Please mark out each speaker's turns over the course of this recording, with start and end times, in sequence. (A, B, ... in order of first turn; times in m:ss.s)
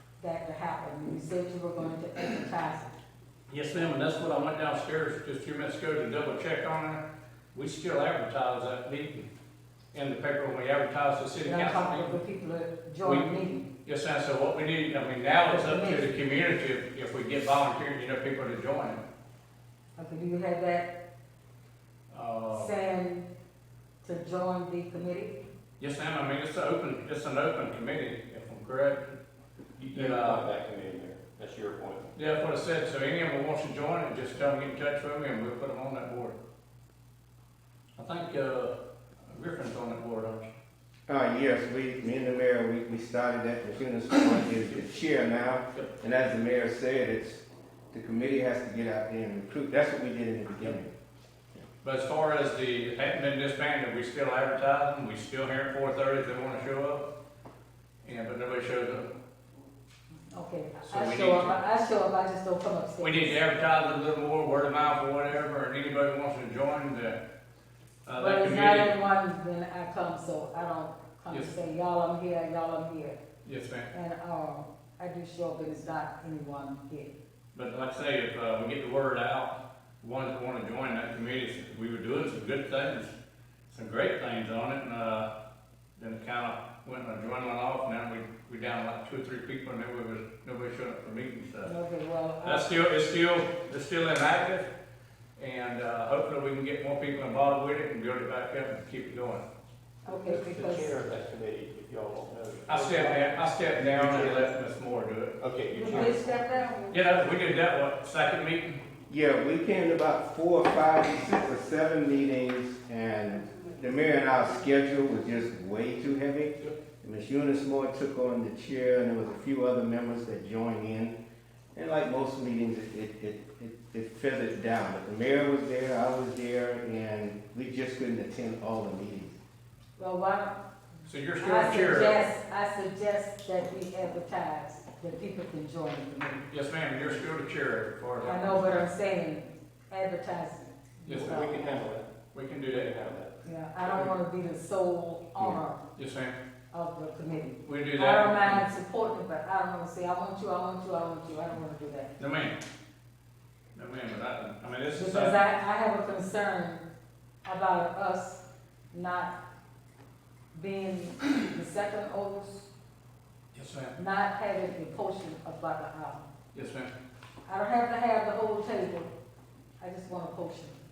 0:00.2-0:02.9 A
0:03.5-0:07.0 B
0:07.5-0:09.3 B
0:09.9-0:12.2 B
0:11.4-0:13.7 A
0:13.0-0:13.3 B
0:13.8-0:19.0 B
0:15.5-0:16.1 A
0:20.0-0:20.9 A
0:22.1-0:22.7 B
0:22.5-0:23.3 A
0:24.0-0:25.4 A
0:25.8-0:29.2 B
0:29.8-0:32.1 C
0:29.9-0:30.5 B
0:32.2-0:36.4 B
0:38.0-0:38.7 B
0:39.2-0:40.5 B
0:41.1-0:50.9 D
0:51.8-0:57.1 B
0:58.0-0:59.1 B
1:00.3-1:03.4 A
1:00.8-1:01.6 B
1:03.0-1:07.2 B
1:08.1-1:09.0 B
1:08.2-1:13.2 A
1:13.4-1:13.9 B
1:13.9-1:17.1 A
1:17.5-1:23.1 B
1:23.7-1:25.3 B
1:26.0-1:31.7 B
1:31.6-1:32.8 A
1:32.4-1:34.7 B
1:35.4-1:39.4 B
1:40.0-1:40.9 A
1:40.1-1:44.5 C
1:42.7-1:46.1 B
1:45.4-1:46.4 C
1:45.7-1:47.0 A
1:46.9-1:48.8 B
1:49.1-2:01.2 D
2:01.8-2:09.4 D
2:10.0-2:10.6 A
2:11.1-2:12.2 B
2:11.4-2:16.5 A
2:16.5-2:18.8 B
2:18.2-2:21.6 A
2:21.1-2:21.4 B
2:21.2-2:22.1 C
2:22.3-2:22.9 B
2:22.7-2:24.1 C
2:23.4-2:25.8 A
2:25.9-2:26.4 B
2:26.7-2:32.1 A
2:27.6-2:28.6 B
2:32.2-2:32.6 B
2:33.8-2:35.4 B
2:34.9-2:36.8 A
2:37.4-2:38.4 A
2:38.9-2:39.3 A
2:40.5-2:42.7 A
2:43.5-2:44.0 B
2:43.9-2:46.2 A
2:46.5-2:46.9 B
2:47.4-2:49.1 A
2:49.8-2:50.8 A